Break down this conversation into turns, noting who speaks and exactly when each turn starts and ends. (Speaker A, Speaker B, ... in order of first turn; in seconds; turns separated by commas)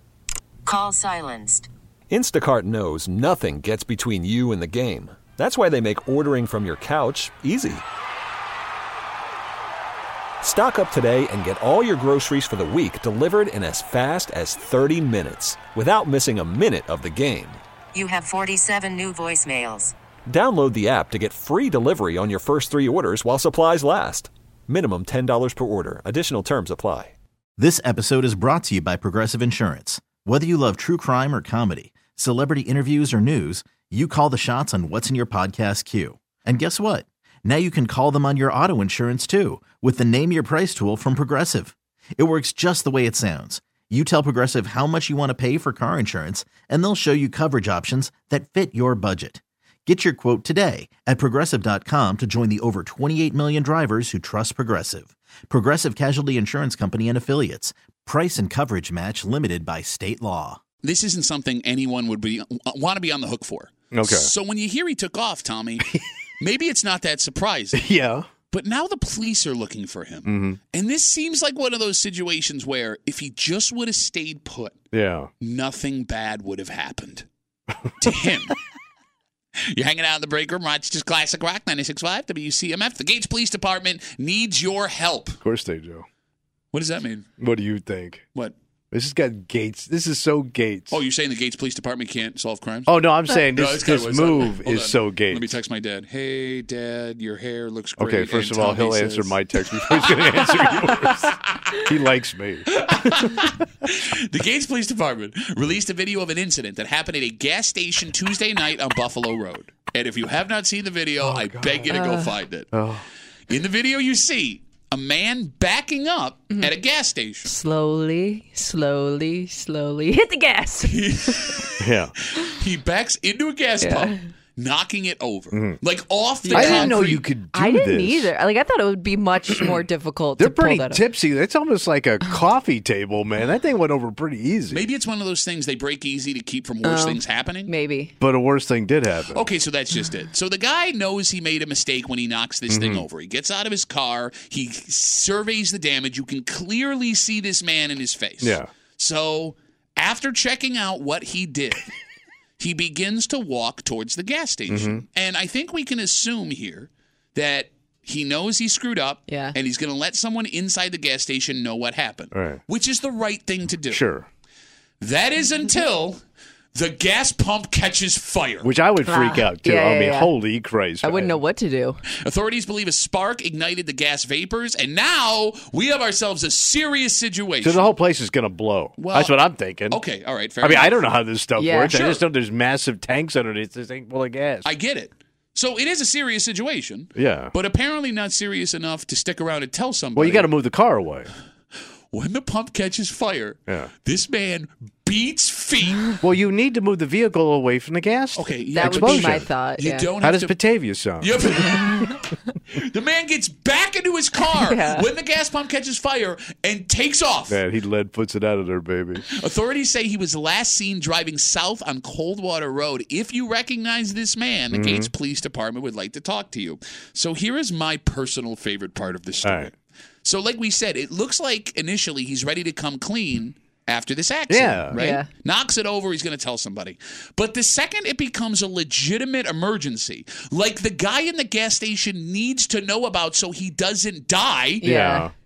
Speaker A: 0.7-1.7, Speaker B: 2.1-7.8, Speaker B: 10.4-17.6, Speaker A: 17.9-19.9, Speaker B: 20.3-27.1, Speaker C: 27.6-60.6, Speaker D: 60.8-67.8, Speaker E: 63.9-64.3, Speaker E: 67.7-68.2, Speaker D: 68.5-74.8, Speaker E: 70.2-70.6, Speaker E: 74.9-75.3, Speaker D: 75.4-77.3, Speaker D: 78.0-78.6, Speaker D: 79.7-85.4, Speaker E: 85.4-86.1, Speaker D: 86.7-87.3, Speaker E: 87.4-88.2, Speaker E: 88.9-91.0, Speaker D: 90.9-101.9, Speaker E: 92.9-95.5, Speaker E: 98.0-103.2, Speaker D: 102.7-112.7, Speaker E: 111.2-112.0, Speaker F: 111.9-112.3, Speaker E: 112.7-113.0, Speaker D: 113.5-117.5, Speaker F: 117.5-121.0, Speaker D: 120.8-127.2, Speaker E: 121.8-122.1, Speaker F: 123.8-124.2, Speaker E: 125.5-125.8, Speaker F: 126.5-127.0, Speaker E: 126.5-128.3, Speaker F: 127.5-131.0, Speaker E: 130.4-134.8, Speaker D: 134.7-137.7, Speaker F: 136.8-138.1, Speaker E: 138.2-139.5, Speaker D: 139.3-151.8, Speaker E: 142.7-143.1, Speaker E: 148.4-148.7, Speaker D: 152.6-164.0, Speaker E: 154.7-155.0, Speaker F: 159.3-159.6, Speaker E: 162.3-162.6, Speaker E: 163.9-164.3, Speaker D: 165.0-166.2, Speaker D: 166.7-168.7, Speaker E: 168.6-171.4, Speaker F: 169.1-170.3, Speaker F: 171.0-172.0, Speaker D: 172.2-177.9, Speaker E: 177.6-180.0, Speaker D: 179.0-179.4, Speaker D: 179.9-181.1, Speaker E: 180.6-184.7, Speaker F: 181.6-181.9, Speaker D: 181.9-182.2, Speaker D: 184.6-190.5, Speaker E: 187.2-187.5, Speaker E: 190.2-191.3, Speaker D: 192.1-196.2, Speaker E: 196.2-199.5, Speaker D: 198.3-200.6, Speaker F: 198.7-200.1, Speaker E: 200.2-201.3, Speaker D: 201.2-207.6, Speaker F: 204.5-205.1, Speaker E: 207.5-209.2, Speaker D: 209.3-234.8, Speaker E: 214.7-215.1, Speaker E: 219.4-219.7, Speaker E: 224.5-224.9, Speaker F: 224.9-225.3, Speaker F: 234.8-235.3, Speaker E: 234.8-235.3